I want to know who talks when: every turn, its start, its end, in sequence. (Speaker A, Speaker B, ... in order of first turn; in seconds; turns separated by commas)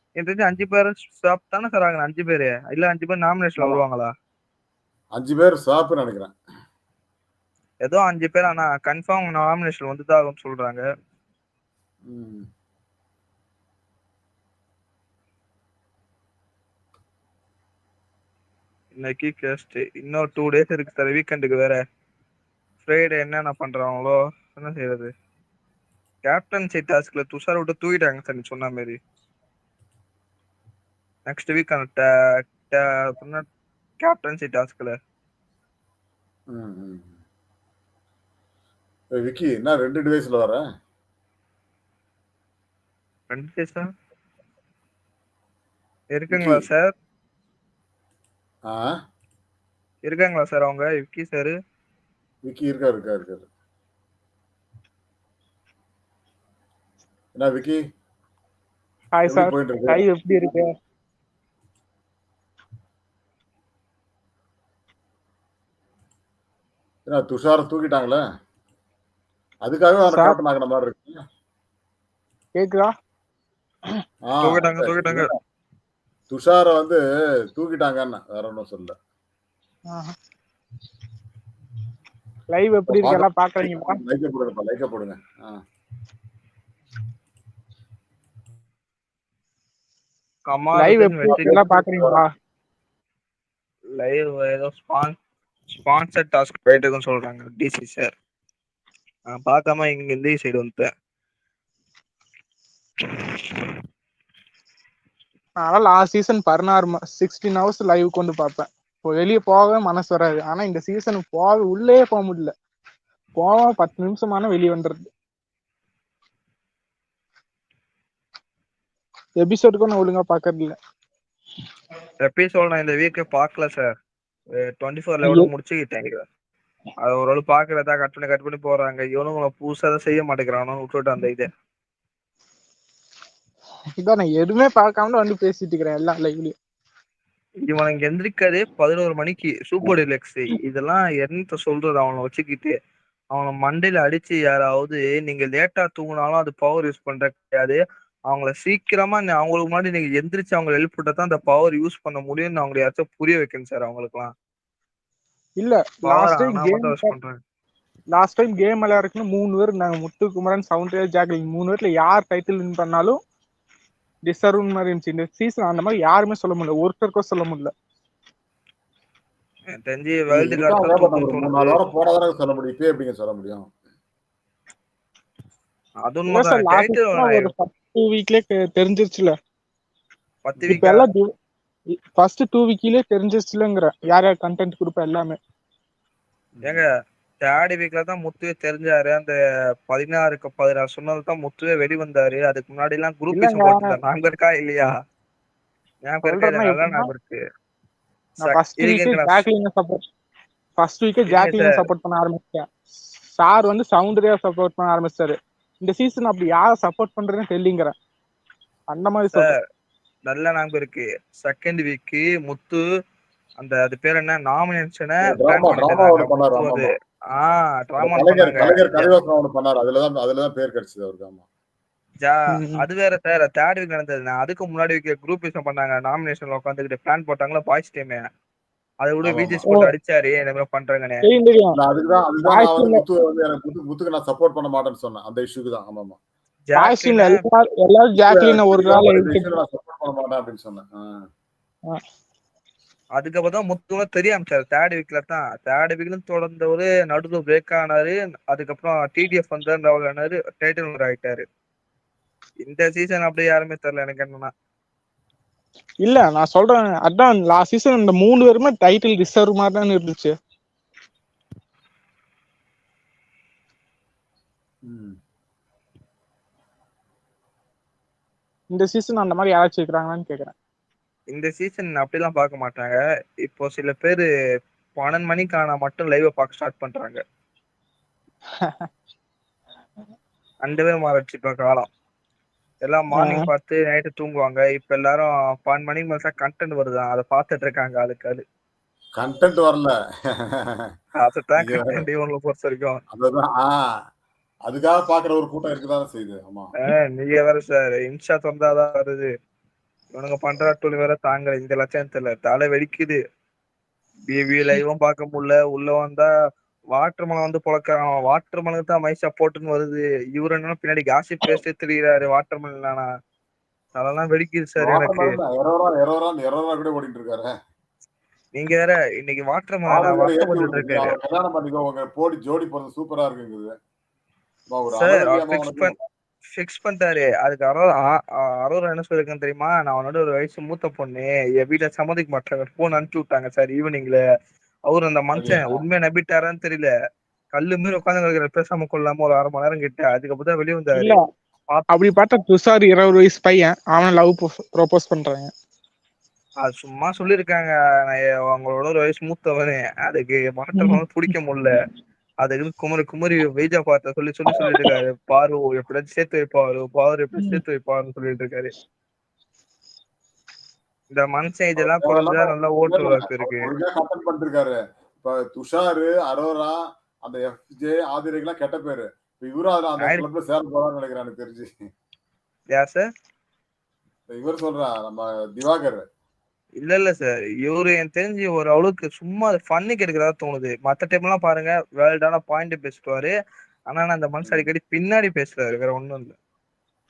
Speaker A: 0.2-4.1, Speaker B: 5.2-6.3, Speaker A: 7.8-10.8, Speaker B: 12.1-12.4, Speaker A: 18.9-21.8, Speaker A: 22.8-25.1, Speaker A: 26.2-29.0, Speaker A: 31.3-33.4, Speaker A: 34.0-34.9, Speaker B: 36.5-37.1, Speaker B: 39.2-40.6, Speaker A: 43.3-43.9, Speaker A: 46.1-46.9, Speaker B: 46.3-46.6, Speaker B: 48.7-48.9, Speaker A: 50.0-51.5, Speaker B: 52.4-53.5, Speaker B: 57.4-57.8, Speaker C: 59.2-60.7, Speaker B: 59.3-60.0, Speaker B: 67.1-68.2, Speaker B: 69.7-71.2, Speaker C: 72.6-72.9, Speaker B: 74.3-75.3, Speaker A: 74.4-75.2, Speaker B: 76.3-77.0, Speaker B: 77.5-78.9, Speaker C: 82.5-84.0, Speaker B: 82.9-85.6, Speaker A: 90.5-91.6, Speaker C: 90.8-92.2, Speaker B: 91.3-92.2, Speaker A: 94.0-95.1, Speaker A: 95.7-98.1, Speaker A: 99.3-100.9, Speaker C: 105.6-112.5, Speaker C: 113.3-115.1, Speaker C: 119.4-120.8, Speaker A: 122.2-123.9, Speaker A: 124.5-126.2, Speaker C: 125.2-125.5, Speaker A: 127.0-131.5, Speaker C: 134.0-136.5, Speaker A: 137.7-142.7, Speaker A: 143.3-154.3, Speaker C: 155.6-157.1, Speaker A: 156.1-157.4, Speaker C: 158.1-163.2, Speaker C: 164.3-167.7, Speaker A: 169.7-171.7, Speaker B: 170.3-173.7, Speaker A: 176.1-177.5, Speaker C: 176.3-179.3, Speaker A: 180.4-181.0, Speaker C: 180.7-181.3, Speaker C: 182.1-185.3, Speaker B: 186.6-186.8, Speaker A: 187.4-189.3, Speaker A: 189.9-194.9, Speaker C: 193.3-193.9, Speaker A: 196.1-197.4, Speaker C: 196.2-197.1, Speaker A: 198.4-199.4, Speaker C: 198.4-200.0, Speaker C: 200.8-202.7, Speaker A: 201.3-201.8, Speaker C: 203.4-207.9, Speaker C: 208.9-209.5, Speaker A: 209.3-209.6, Speaker A: 210.3-212.8, Speaker A: 213.6-219.1, Speaker B: 215.2-216.9, Speaker B: 218.0-221.4, Speaker A: 222.2-228.2, Speaker C: 222.5-222.8, Speaker A: 229.0-231.2, Speaker B: 229.2-229.6, Speaker C: 229.7-229.9, Speaker C: 231.2-231.8, Speaker B: 231.8-236.2, Speaker C: 232.4-233.0, Speaker A: 236.7-237.4, Speaker C: 236.8-239.5, Speaker B: 238.2-241.3, Speaker A: 243.2-251.4, Speaker A: 252.6-254.5, Speaker C: 256.0-260.3, Speaker B: 264.9-265.2, Speaker C: 268.7-270.5, Speaker A: 271.3-274.3, Speaker A: 275.0-277.2, Speaker C: 278.6-278.9, Speaker A: 280.6-281.9, Speaker A: 282.8-288.4, Speaker C: 283.1-283.5, Speaker B: 289.2-289.9, Speaker B: 290.5-290.8, Speaker A: 291.2-293.0, Speaker B: 291.6-292.0, Speaker B: 293.1-293.8, Speaker B: 294.7-296.7, Speaker A: 296.8-299.3, Speaker A: 300.1-303.2, Speaker A: 304.3-306.3, Speaker A: 306.9-313.1, Speaker A: 313.9-315.4, Speaker B: 314.8-317.5, Speaker A: 318.5-321.1, Speaker B: 319.9-323.7, Speaker B: 324.7-325.9, Speaker A: 325.0-325.9, Speaker A: 326.5-334.2, Speaker A: 334.9-336.9, Speaker B: 335.3-335.8, Speaker A: 337.5-341.1, Speaker C: 341.9-345.5, Speaker A: 346.6-351.8, Speaker C: 350.8-351.0, Speaker A: 352.4-358.7, Speaker C: 354.5-355.0, Speaker A: 361.1-363.7, Speaker B: 361.8-371.7, Speaker A: 372.7-373.1, Speaker B: 374.3-376.1, Speaker A: 376.8-383.3, Speaker A: 383.9-386.3